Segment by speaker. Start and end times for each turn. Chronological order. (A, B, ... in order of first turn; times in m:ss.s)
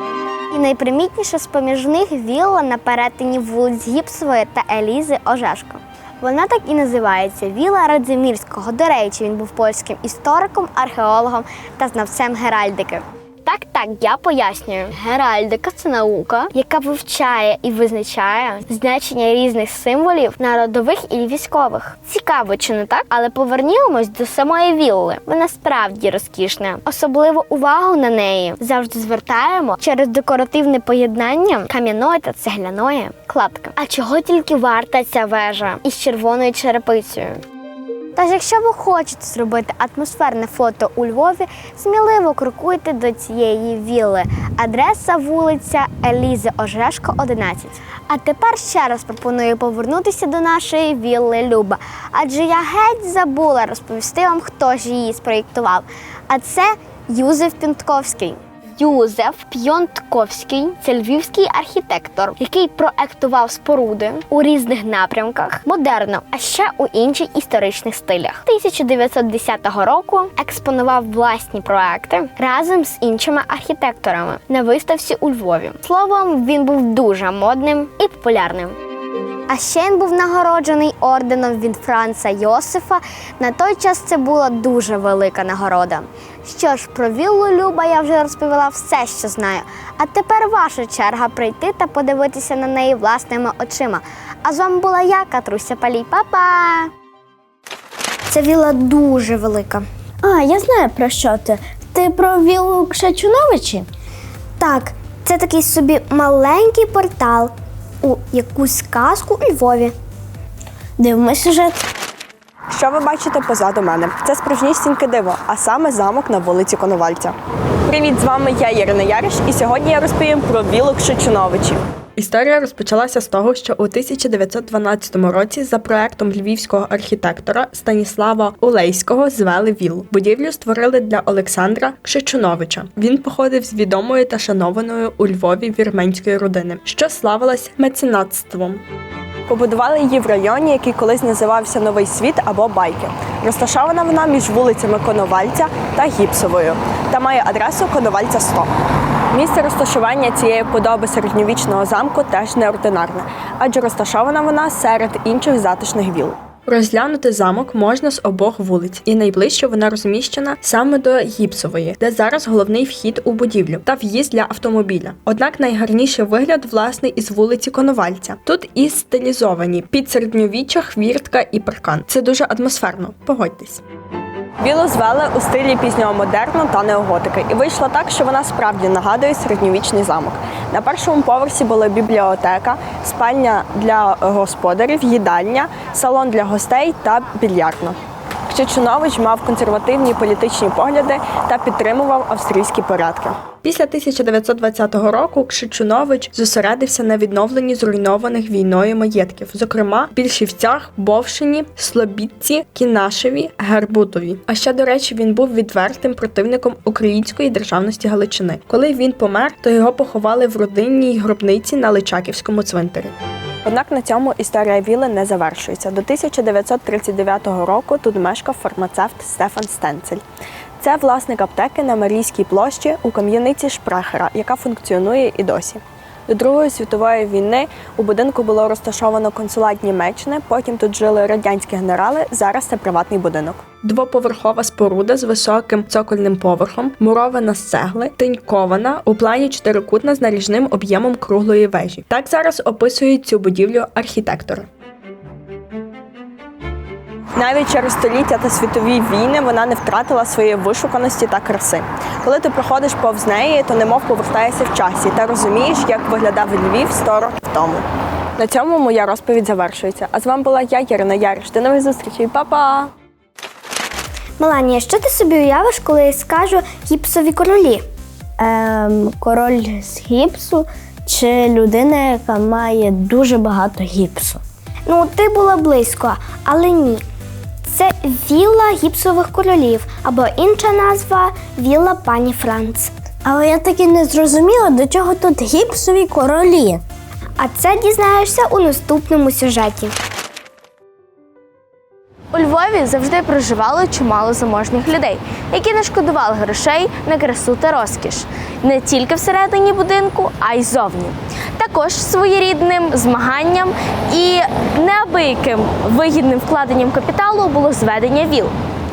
0:00.5-0:37.4 A
0:38.2-1:18.8 A
1:19.5-1:36.9 A
1:38.3-1:39.9 B
1:40.2-1:43.9 C
1:44.6-1:50.0 B
1:51.0-1:51.9 C
1:52.7-1:57.3 D
1:57.9-2:18.8 D
2:19.5-2:28.7 D
2:29.3-2:53.8 D
2:54.6-3:08.0 D
3:08.5-3:33.1 D
3:33.6-3:40.2 D
3:40.8-4:04.7 D
4:07.4-4:17.8 D
4:18.4-4:22.9 D
4:24.4-4:27.9 B
4:28.4-4:34.4 C
4:34.9-4:37.0 B
4:37.7-4:42.9 B
4:43.2-4:46.8 C
4:47.4-4:50.0 B
4:52.3-5:08.6 E